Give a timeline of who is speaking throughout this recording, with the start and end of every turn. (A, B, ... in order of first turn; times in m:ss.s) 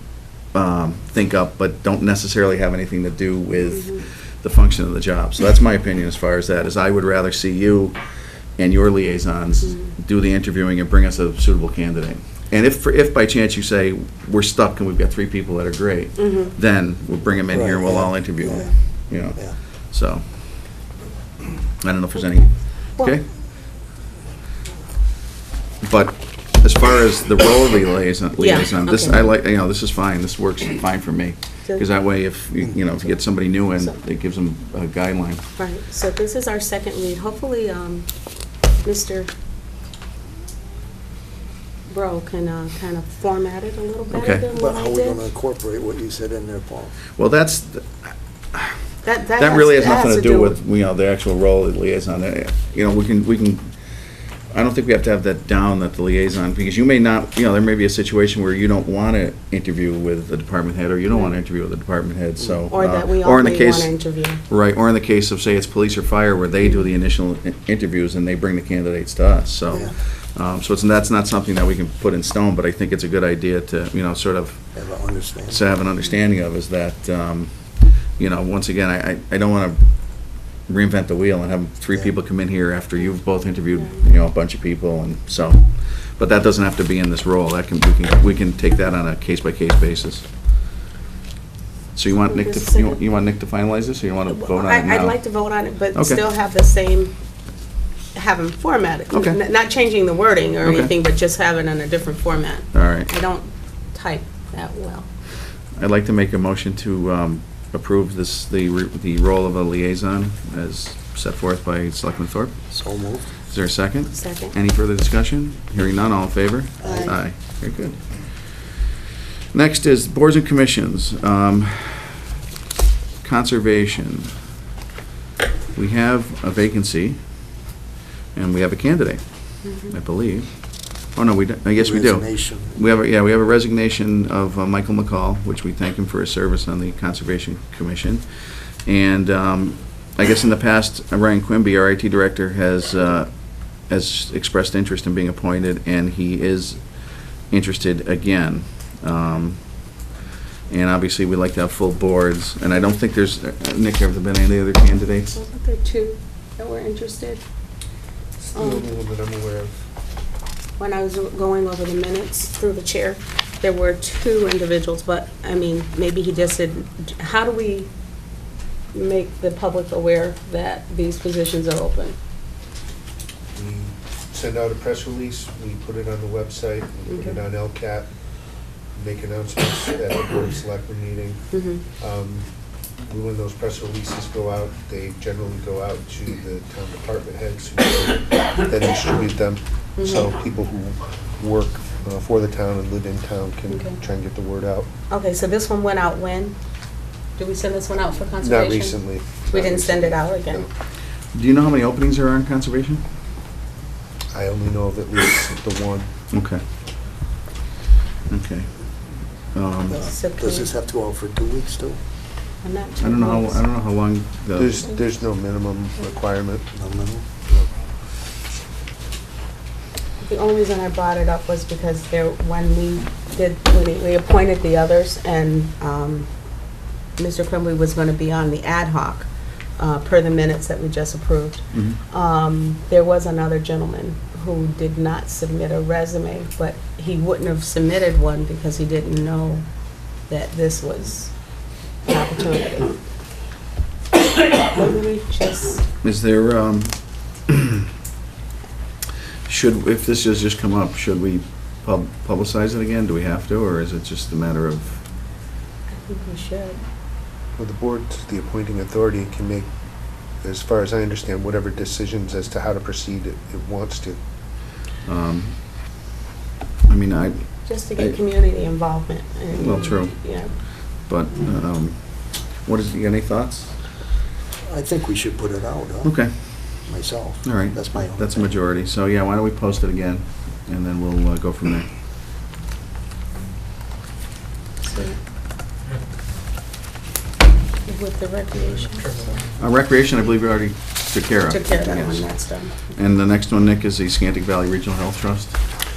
0:00.5-0:08.0 A
0:03.8-0:04.0 B
0:08.6-0:20.5 A
0:09.6-0:09.9 B
0:16.2-0:16.5 B
0:17.5-0:19.6 C
0:21.8-0:23.2 A
0:25.8-0:35.5 A
0:28.4-0:29.2 B
0:35.6-0:38.1 B
0:38.8-0:39.3 B
0:41.9-0:45.2 B
0:44.1-0:44.4 A
0:44.5-0:46.9 C
0:47.2-0:53.7 A
0:49.0-0:50.6 B
0:54.5-1:14.7 A
1:02.7-1:04.4 B
1:14.7-1:15.6 C
1:15.5-1:30.3 A
1:32.0-1:35.2 A
1:32.2-1:33.0 B
1:34.3-1:37.1 B
1:35.9-1:36.2 A
1:38.1-1:45.1 B
1:39.1-1:39.4 A
1:40.6-1:40.9 A
1:42.7-1:43.1 A
1:45.8-1:52.7 A
1:52.7-1:53.3 C
1:53.4-1:58.6 A
1:54.1-1:54.6 B
1:56.8-1:57.1 C
1:59.5-2:02.2 A
2:03.2-2:04.3 A
2:05.8-2:07.2 A
2:08.3-2:18.3 A
2:09.6-2:09.9 B
2:11.8-2:12.8 C
2:18.8-2:29.6 A
2:30.7-2:35.4 A
2:35.3-2:37.4 B
2:38.4-2:39.7 D
2:38.6-2:38.8 B
2:40.8-2:47.9 B
2:48.9-2:52.2 B
2:53.5-2:58.1 D
2:57.1-2:57.4 B
2:59.0-3:01.4 D
3:01.5-3:01.8 B
3:02.0-3:14.9 D
3:10.0-3:10.3 B
3:13.7-3:14.0 B
3:15.1-3:16.6 B
3:17.4-3:19.0 B
3:18.4-3:20.7 D
3:19.5-3:20.7 B
3:21.3-3:23.0 A
3:24.3-3:26.1 D
3:26.3-3:26.6 A
3:28.3-3:28.7 A
3:29.5-3:30.0 A
3:29.9-3:30.7 B
3:29.9-3:32.0 C
3:32.6-3:33.6 B
3:33.0-3:34.8 A
3:34.5-3:36.7 D
3:36.7-3:37.6 C
3:40.2-3:46.3 B
3:47.2-3:59.6 B
3:51.7-3:52.0 A
4:00.3-4:01.4 B
4:02.0-4:03.0 B
4:04.5-4:05.8 B
4:06.0-4:07.9 A
4:09.5-4:15.0 A
4:15.9-4:16.8 B
4:17.6-4:19.7 D
4:20.4-4:24.2 D
4:25.1-4:25.6 A
4:26.9-4:28.2 A
4:27.7-4:30.5 B
4:29.5-4:33.8 A
4:34.6-4:36.1 C
4:36.0-4:36.3 A
4:36.8-4:38.5 C
4:37.4-4:41.9 A
4:44.8-4:45.2 B
4:47.9-4:49.4 B
4:49.6-4:52.3 A
4:51.4-4:52.8 B
4:52.9-4:55.6 A